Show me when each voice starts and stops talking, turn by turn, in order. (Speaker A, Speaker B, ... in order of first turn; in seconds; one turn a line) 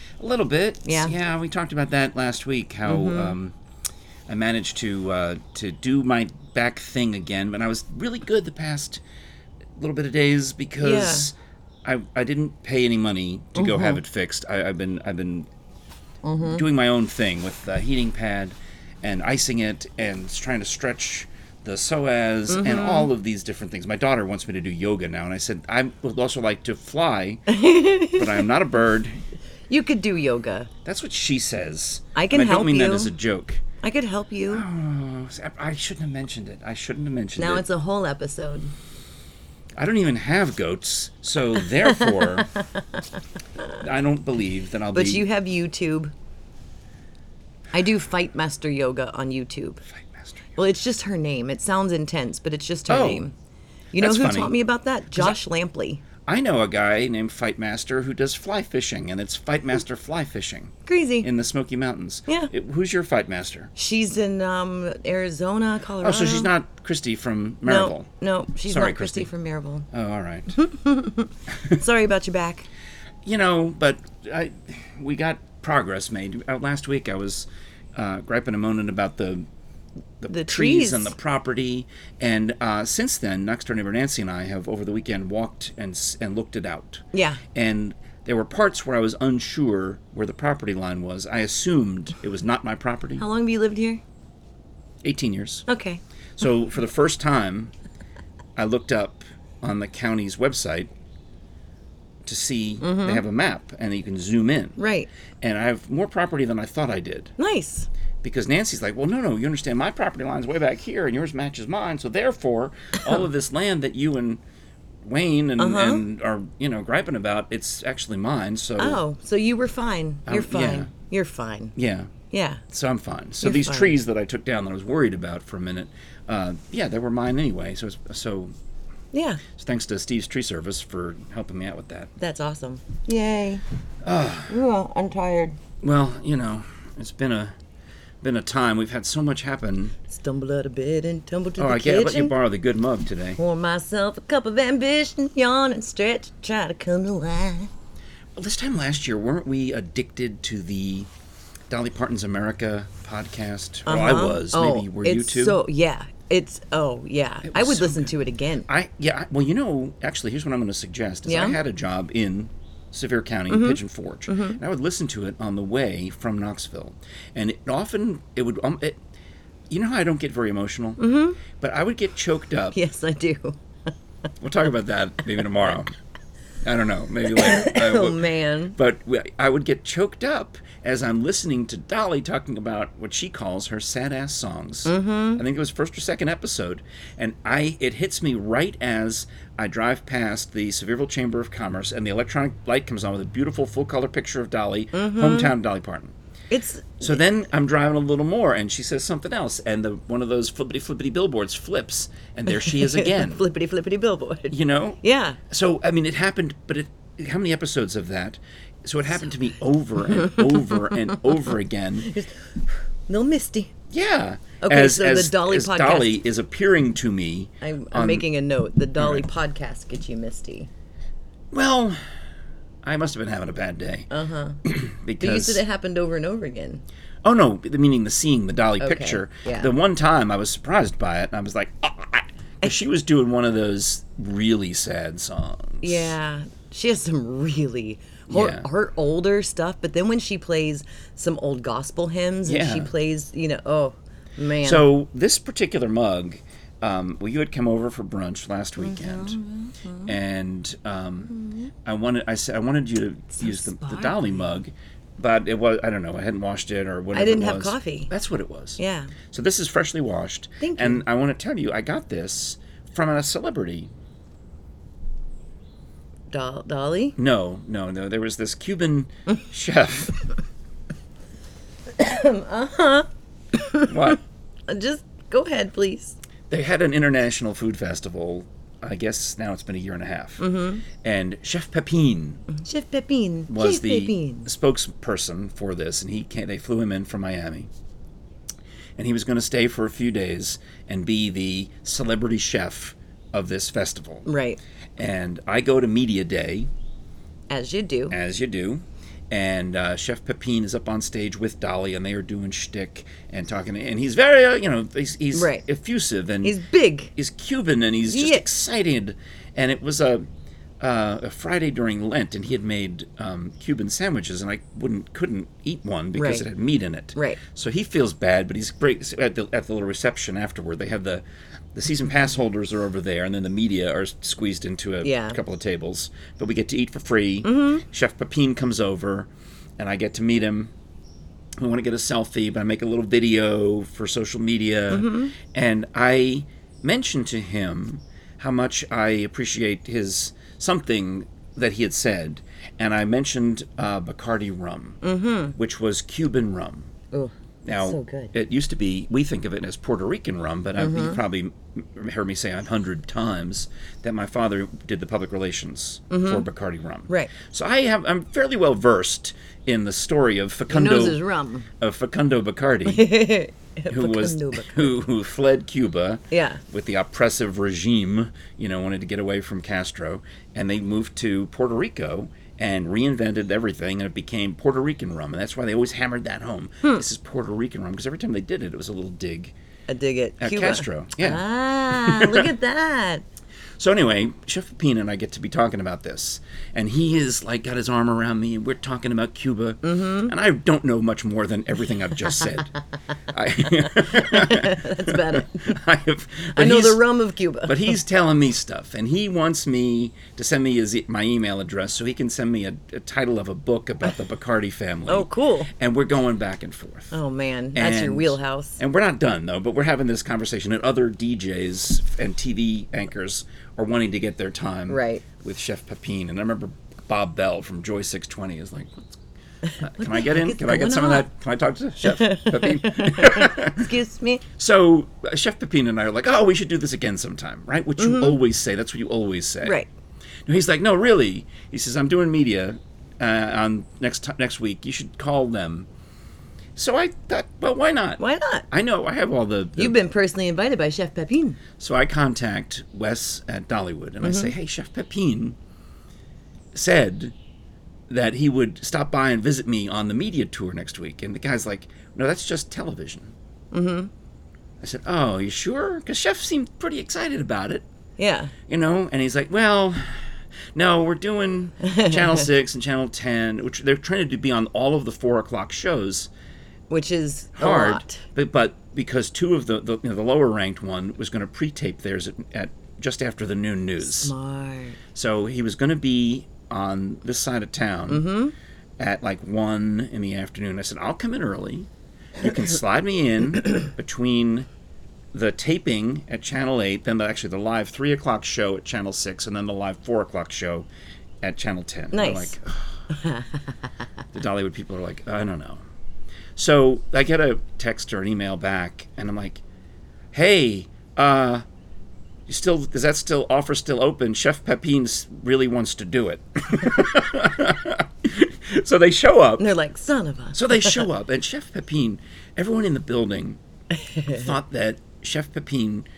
Speaker A: 0.2-3.5
Speaker B: 0.9-1.1
Speaker B: 2.9-3.4
Speaker A: 4.3-9.0
Speaker A: 9.8-15.5
Speaker B: 10.8-11.3
Speaker B: 13.6-14.0
Speaker B: 16.2-16.6
Speaker A: 16.4-27.5
Speaker B: 22.5-23.1
Speaker B: 27.5-28.5
Speaker A: 28.1-29.2
Speaker B: 29.7-30.7
Speaker A: 30.9-33.6
Speaker B: 32.1-33.1
Speaker B: 33.8-34.6
Speaker A: 34.5-37.7
Speaker B: 37.4-38.7
Speaker A: 39.8-42.5
Speaker B: 41.8-43.0
Speaker A: 43.8-45.3
Speaker B: 44.9-46.1
Speaker B: 47.7-49.8
Speaker A: 49.9-50.5
Speaker B: 50.6-53.3
Speaker A: 52.9-53.2
Speaker B: 53.9-56.0
Speaker A: 54.0-54.6
Speaker A: 56.3-63.7
Speaker B: 60.9-61.3
Speaker B: 63.8-66.5
Speaker A: 66.0-68.1
Speaker B: 67.7-69.9
Speaker A: 68.7-69.3
Speaker A: 69.9-70.6
Speaker B: 70.5-72.7
Speaker A: 73.2-79.5
Speaker A: 80.2-93.2
Speaker B: 80.3-81.2
Speaker B: 87.1-87.4
Speaker B: 93.2-94.0
Speaker A: 95.0-95.7
Speaker B: 95.7-96.0
Speaker A: 96.4-97.7
Speaker A: 98.6-100.9
Speaker A: 102.2-104.8
Speaker B: 102.8-103.2
Speaker B: 104.8-105.1
Speaker A: 105.4-107.3
Speaker B: 107.4-107.9
Speaker A: 108.2-114.4
Speaker A: 115.0-119.0
Speaker B: 115.6-116.0
Speaker B: 118.8-121.8
Speaker A: 120.3-120.9
Speaker A: 121.8-122.1
Speaker B: 122.3-122.6
Speaker A: 122.7-128.6
Speaker B: 123.4-124.0
Speaker B: 129.1-129.4
Speaker A: 129.5-132.1
Speaker B: 132.2-133.6
Speaker A: 134.0-134.6
Speaker B: 134.5-135.6
Speaker A: 135.8-137.6
Speaker A: 138.2-140.0
Speaker B: 140.1-142.3
Speaker A: 141.6-143.4
Speaker B: 143.4-147.7
Speaker A: 148.3-151.1
Speaker A: 151.7-155.6
Speaker B: 153.9-158.7
Speaker A: 157.4-158.1
Speaker A: 158.7-169.0
Speaker B: 161.3-161.6
Speaker B: 163.5-164.6
Speaker A: 169.7-172.8
Speaker B: 171.0-171.4
Speaker B: 172.7-173.6
Speaker A: 174.4-175.9
Speaker A: 176.6-178.2
Speaker B: 177.3-178.8
Speaker A: 178.8-196.1
Speaker B: 184.9-185.4
Speaker B: 194.9-195.5
Speaker B: 196.5-197.2
Speaker A: 197.0-203.4
Speaker B: 202.6-205.4
Speaker A: 204.5-212.1
Speaker B: 210.2-210.9
Speaker B: 212.0-213.7
Speaker A: 213.9-218.3
Speaker B: 214.6-216.2
Speaker B: 217.6-220.7
Speaker A: 219.0-219.3
Speaker A: 221.5-222.0
Speaker A: 222.8-224.1
Speaker B: 224.1-224.6
Speaker A: 224.6-225.6
Speaker B: 225.2-226.8
Speaker A: 227.2-236.2
Speaker B: 228.8-229.7
Speaker B: 235.8-244.9
Speaker A: 238.3-238.7
Speaker A: 242.5-242.9
Speaker A: 244.6-249.4
Speaker B: 248.8-250.2
Speaker A: 250.1-251.3
Speaker B: 251.3-251.7
Speaker A: 251.8-258.8
Speaker B: 253.4-254.4
Speaker B: 257.1-258.1
Speaker B: 258.8-259.1
Speaker A: 259.3-263.9
Speaker B: 260.6-261.0
Speaker B: 266.3-267.2
Speaker A: 267.2-270.2
Speaker B: 272.0-276.2
Speaker A: 273.9-274.2
Speaker A: 276.5-282.4
Speaker B: 280.4-280.8
Speaker B: 282.5-284.5
Speaker A: 283.5-287.7
Speaker A: 289.0-294.3
Speaker B: 294.3-294.6
Speaker A: 295.0-296.7
Speaker B: 297.5-298.2
Speaker A: 298.1-306.6
Speaker B: 305.3-305.6
Speaker B: 306.4-307.1
Speaker A: 307.1-310.2
Speaker B: 308.1-308.5
Speaker A: 310.8-330.7
Speaker B: 316.2-316.5
Speaker B: 317.2-317.4
Speaker B: 325.0-325.4
Speaker B: 327.4-327.8
Speaker A: 331.6-345.0
Speaker B: 334.9-335.4
Speaker B: 345.0-345.6
Speaker A: 345.6-346.9
Speaker B: 347.1-348.3
Speaker A: 347.6-361.2
Speaker B: 350.8-351.2
Speaker B: 356.1-356.5
Speaker B: 360.7-361.7
Speaker A: 361.8-363.1
Speaker B: 362.9-365.0
Speaker A: 363.9-379.6
Speaker B: 366.3-366.6
Speaker B: 379.9-383.2
Speaker A: 380.4-382.5
Speaker A: 383.8-392.7
Speaker B: 389.8-390.3
Speaker A: 393.3-397.0
Speaker B: 393.9-395.8
Speaker B: 396.6-398.0
Speaker A: 397.6-407.1
Speaker B: 405.1-405.7
Speaker B: 407.1-408.8
Speaker A: 407.8-419.2
Speaker B: 414.9-415.2
Speaker B: 419.6-421.3
Speaker A: 419.8-423.9
Speaker B: 422.0-424.4
Speaker A: 424.6-429.8
Speaker B: 428.0-428.4
Speaker B: 429.6-429.9
Speaker A: 430.5-435.9
Speaker A: 436.8-438.2
Speaker B: 438.2-438.7
Speaker A: 438.7-440.0
Speaker B: 439.8-441.6
Speaker A: 441.8-445.6
Speaker B: 444.2-444.5
Speaker A: 446.7-447.3
Speaker A: 448.1-453.3
Speaker B: 453.7-454.1
Speaker A: 454.8-457.9
Speaker B: 458.2-458.5
Speaker A: 458.7-466.3
Speaker B: 461.8-462.4
Speaker B: 466.9-468.2
Speaker A: 467.6-474.3
Speaker B: 474.0-475.0
Speaker A: 475.1-478.2
Speaker B: 478.1-478.5
Speaker A: 479.0-484.7
Speaker A: 485.3-490.9
Speaker A: 491.4-492.9
Speaker B: 492.1-492.5
Speaker B: 493.1-493.6
Speaker A: 494.3-495.8
Speaker A: 496.6-499.6
Speaker A: 500.3-501.6
Speaker A: 502.5-509.7
Speaker B: 509.6-511.0
Speaker A: 510.5-513.6
Speaker B: 514.0-514.4
Speaker A: 514.3-516.1